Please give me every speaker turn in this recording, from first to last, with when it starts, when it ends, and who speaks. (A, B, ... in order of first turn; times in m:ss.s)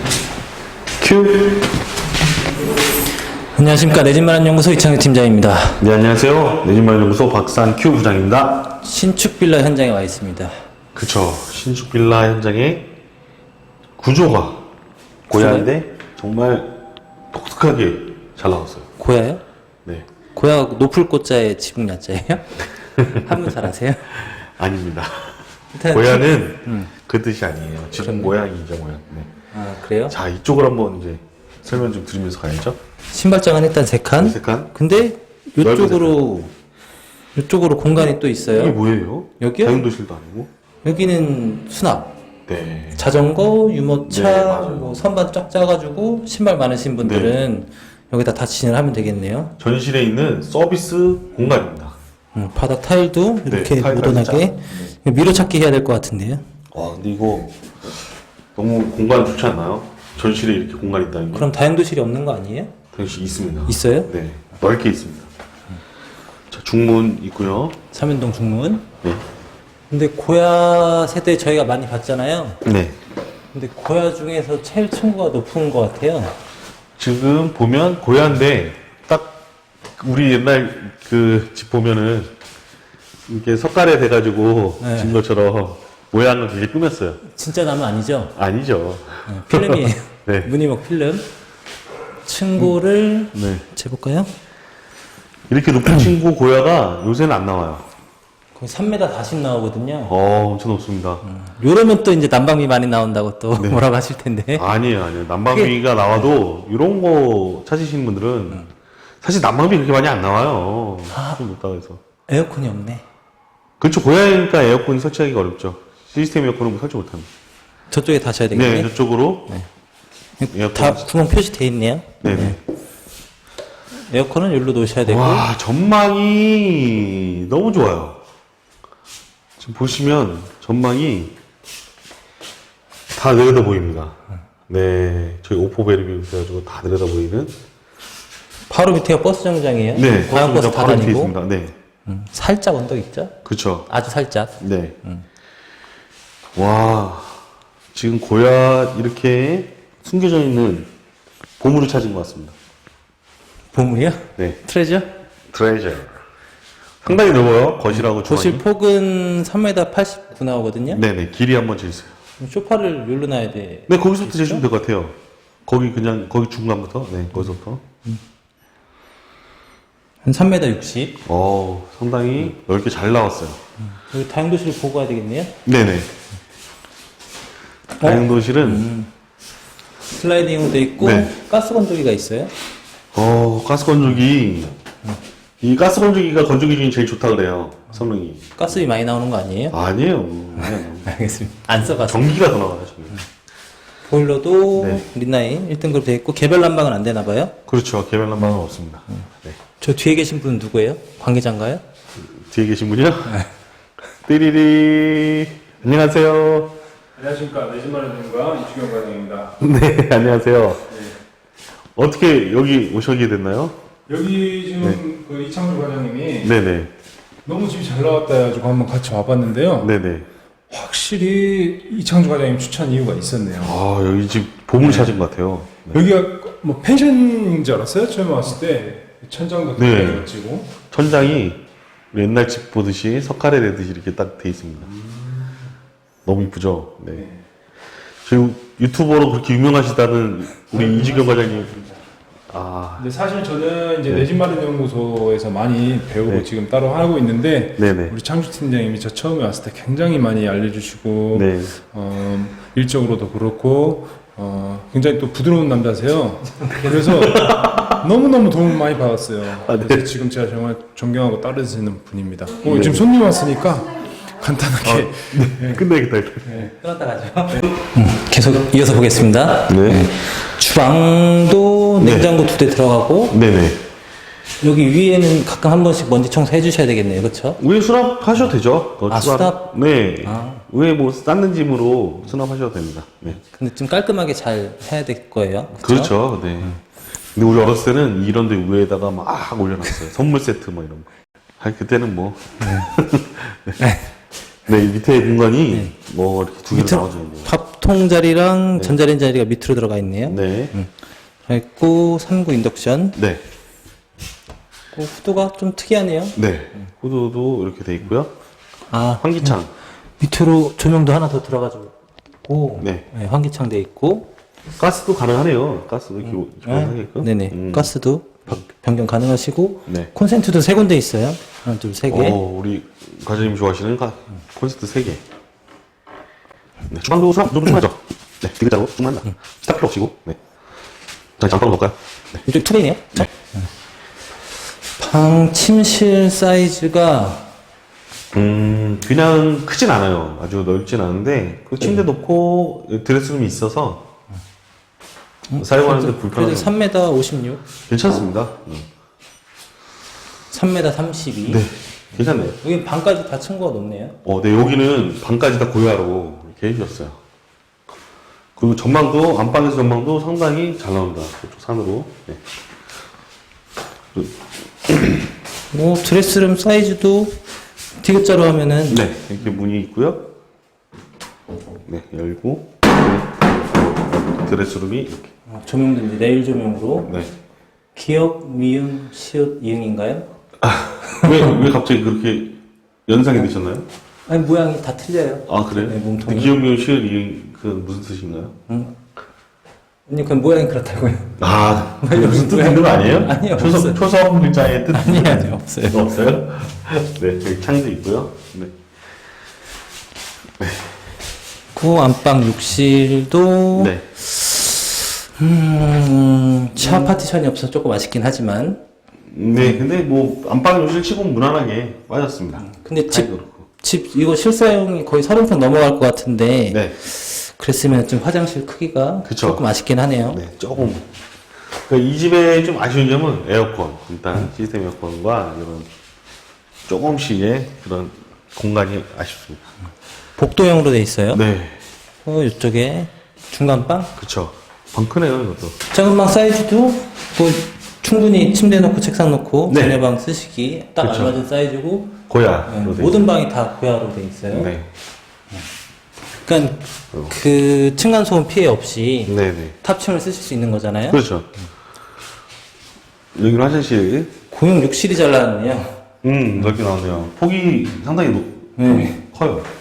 0:01.0-0:01.7 A
0:03.5-0:05.8 B
0:05.8-0:08.7 A
0:08.8-0:10.5 B
0:11.0-0:12.9 A
0:14.0-0:14.7 A
0:15.3-0:15.7 B
0:15.3-0:16.7 A
0:17.3-0:18.9 A
0:19.0-0:19.4 B
0:20.3-0:24.1 B
0:23.0-0:23.3 A
0:24.1-0:29.3 A
0:25.7-0:26.9 B
0:28.0-0:28.4 B
0:29.5-0:30.2 B
0:30.1-0:32.8 A
0:33.1-0:36.5 B
0:34.2-0:34.7 A
0:35.6-0:36.4 A
0:37.4-0:38.8 B
0:38.5-0:40.5 A
0:39.4-0:39.9 B
0:40.8-0:42.2 B
0:42.5-0:43.1 A
0:43.0-0:49.5 B
0:44.1-0:45.1 A
0:47.0-0:47.4 A
0:49.6-0:52.0 A
0:52.4-0:56.4 B
0:53.5-0:54.9 A
0:56.7-0:58.0 A
0:58.6-1:01.5 A
1:01.3-1:02.7 B
1:02.9-1:05.3 A
1:03.7-1:04.1 B
1:06.5-1:07.8 A
1:07.9-1:08.9 B
1:09.9-1:12.6 B
1:12.6-1:13.0 A
1:13.5-1:16.4 B
1:17.0-1:19.4 A
1:20.0-1:22.3 A
1:23.3-1:27.2 A
1:24.8-1:25.2 B
1:27.2-1:28.3 B
1:28.4-1:30.5 A
1:29.3-1:31.3 B
1:32.2-1:34.3 B
1:33.3-1:33.6 A
1:35.5-1:37.9 A
1:38.6-1:40.2 B
1:40.1-1:41.2 A
1:41.2-1:44.7 B
1:43.6-1:43.8 A
1:44.5-1:48.7 A
1:45.5-1:45.8 B
1:49.2-1:52.0 A
1:51.1-1:51.4 B
1:52.3-1:53.0 B
1:53.8-1:57.3 A
1:57.9-1:58.9 B
1:58.5-1:59.5 A
2:00.4-2:02.6 B
2:00.5-2:01.0 A
2:02.2-2:02.6 A
2:04.0-2:05.5 B
2:05.0-2:08.2 A
2:09.6-2:11.4 A
2:13.1-2:14.2 A
2:14.7-2:17.6 A
2:18.7-2:21.4 B
2:19.9-2:21.8 A
2:22.1-2:23.4 B
2:23.4-2:23.9 A
2:23.9-2:25.2 B
2:24.6-2:25.0 A
2:26.6-2:27.4 A
2:27.9-2:30.9 A
2:31.6-2:32.6 A
2:33.7-2:35.1 B
2:35.5-2:36.2 A
2:37.0-2:38.6 A
2:37.9-2:41.0 B
2:40.9-2:42.2 A
2:42.4-2:44.6 B
2:43.9-2:47.8 A
2:50.2-2:51.2 B
2:51.2-2:53.6 A
2:53.9-2:55.6 B
2:55.6-2:56.1 A
2:58.0-2:59.1 B
2:58.0-2:58.9 A
3:00.1-3:02.5 B
3:01.0-3:01.4 A
3:03.1-3:04.7 A
3:05.6-3:08.6 A
3:08.6-3:09.8 B
3:09.7-3:11.2 A
3:10.6-3:12.4 B
3:11.9-3:13.2 A
3:14.1-3:17.5 B
3:14.8-3:15.1 A
3:17.7-3:19.6 A
3:19.8-3:21.8 B
3:22.2-3:23.4 A
3:24.2-3:26.8 A
3:27.2-3:29.6 C
3:29.6-3:30.8 A
3:32.0-3:33.8 A
3:34.1-3:36.5 C
3:36.4-3:36.9 A
3:37.5-3:39.9 C
3:39.8-3:40.3 A
3:40.7-3:43.8 C
3:43.6-3:46.0 A
3:44.8-3:45.1 C
3:45.9-3:50.7 C
3:49.8-3:50.3 A
3:50.9-3:54.9 A
3:56.3-3:57.2 A
3:58.2-4:01.7 A
4:00.7-4:02.0 C
4:02.5-4:03.1 A
4:03.0-4:25.8 C
4:07.8-4:08.2 A
4:11.3-4:11.8 A
4:16.5-4:17.6 B
4:17.1-4:18.0 A
4:19.6-4:20.1 A
4:22.6-4:23.1 A
4:24.8-4:26.7 A
4:26.5-4:26.7 C
4:26.8-4:33.4 B
4:29.7-4:30.1 A
4:32.0-4:32.3 A
4:33.3-4:33.8 A
4:34.6-4:37.6 B
4:37.6-4:43.4 A
4:39.1-4:39.6 B
4:40.2-4:40.6 B
4:43.4-4:46.8 B
4:45.8-4:46.8 A
4:47.4-4:51.1 A
4:51.6-4:53.8 A
4:52.6-4:52.9 B
4:53.8-4:54.1 B
4:54.7-4:57.5 A
4:56.7-5:00.9 B
5:00.3-5:00.7 A
5:01.5-5:03.2 B
5:03.2-5:03.4 A
5:04.9-5:06.4 B
5:06.4-5:08.3 A
5:08.9-5:09.6 B
5:09.2-5:09.7 A
5:10.2-5:11.9 B
5:12.4-5:14.3 B
5:12.8-5:13.1 A
5:14.8-5:17.9 A
5:16.3-5:22.4 B
5:22.1-5:25.2 A
5:26.9-5:30.4 A
5:31.4-5:32.4 A
5:32.4-5:33.3 B
5:35.0-5:37.5 B
5:38.3-5:44.1 A
5:45.5-5:47.6 B
5:45.6-5:46.7 A
5:47.9-5:48.9 A
5:50.5-5:51.7 B
5:51.5-5:52.6 A
5:52.2-5:54.2 B
5:54.2-5:57.2 A
5:58.6-6:02.4 A
6:04.1-6:05.3 A
6:05.7-6:07.4 B
6:08.0-6:09.0 B
6:08.9-6:10.3 A
6:11.9-6:15.3 A
6:15.5-6:17.2 B
6:17.0-6:17.3 A
6:18.0-6:20.3 B
6:20.6-6:23.9 A
6:21.1-6:21.5 B
6:24.3-6:26.6 B
6:25.5-6:28.6 A
6:28.7-6:29.0 B
6:30.1-6:34.1 B
6:31.4-6:38.8 A
6:34.9-6:36.2 B
6:40.6-6:40.9 A
6:41.7-6:48.8 B
6:43.8-6:44.1 A
6:46.8-6:47.1 A
6:49.3-6:53.6 A
6:49.6-6:49.8 B
6:52.6-7:00.4 B
6:56.7-6:57.0 A
6:59.2-6:59.6 A
7:00.3-7:01.1 A
7:01.8-7:05.9 A
7:06.9-7:09.6 A
7:10.4-7:11.4 B
7:11.3-7:11.8 A
7:12.2-7:14.1 B
7:14.2-7:15.8 A
7:15.9-7:24.7 B
7:19.7-7:20.0 A
7:21.0-7:21.4 A
7:22.3-7:23.3 A
7:24.5-7:24.9 A
7:26.5-7:31.2 B
7:29.3-7:29.8 A
7:31.1-7:31.5 A
7:33.4-7:34.3 A
7:34.5-7:36.0 B
7:36.2-7:39.7 A
7:38.8-7:39.2 B